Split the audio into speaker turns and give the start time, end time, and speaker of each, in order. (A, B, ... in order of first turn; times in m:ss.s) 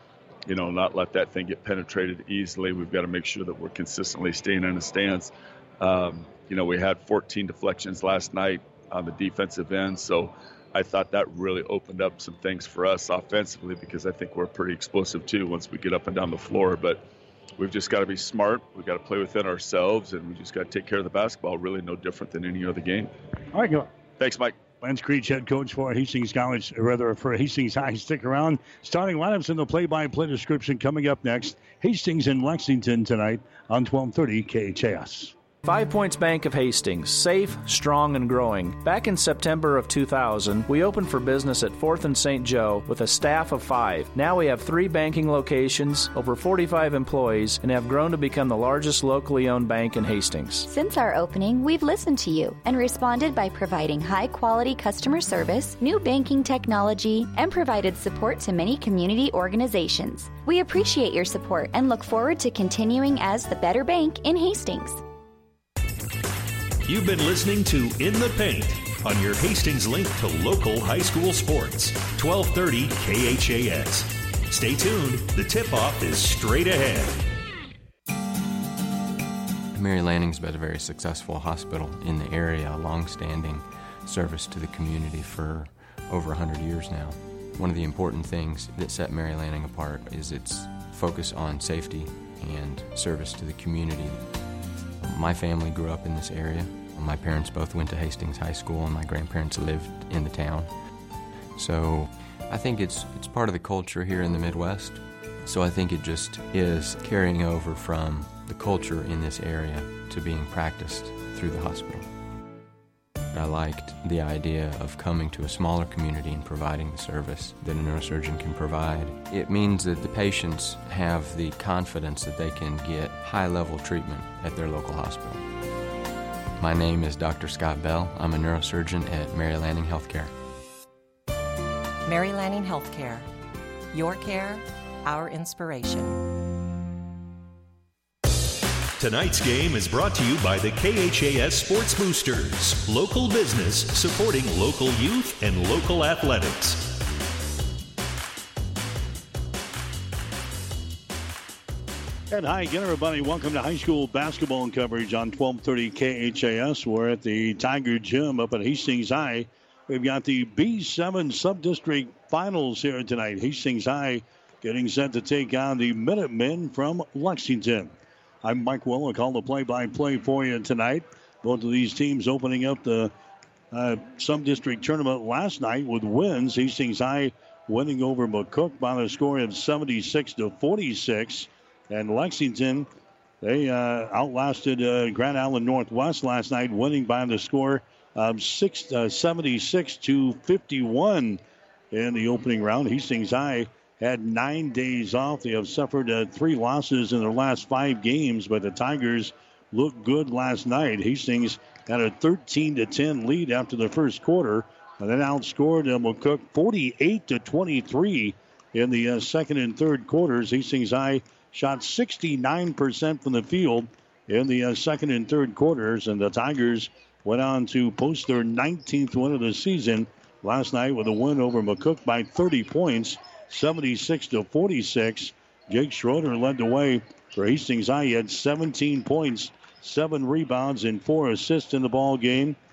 0:00.5-0:17.0 A
0:17.6-0:23.1 A
0:23.5-0:23.9 B
0:24.2-0:24.6 A
0:24.8-0:35.3 B
0:35.6-0:50.7 C
0:50.7-1:05.0 D
1:06.8-1:17.3 E
1:19.7-1:40.9 F
1:41.6-1:52.1 F
1:53.3-2:05.5 F
2:06.6-2:10.3 F
2:12.0-2:13.3 G
2:13.9-2:16.2 G
2:19.0-2:27.0 E
2:32.3-2:53.1 B
2:53.7-3:02.9 B
3:03.4-3:11.4 B
3:11.9-3:52.6 B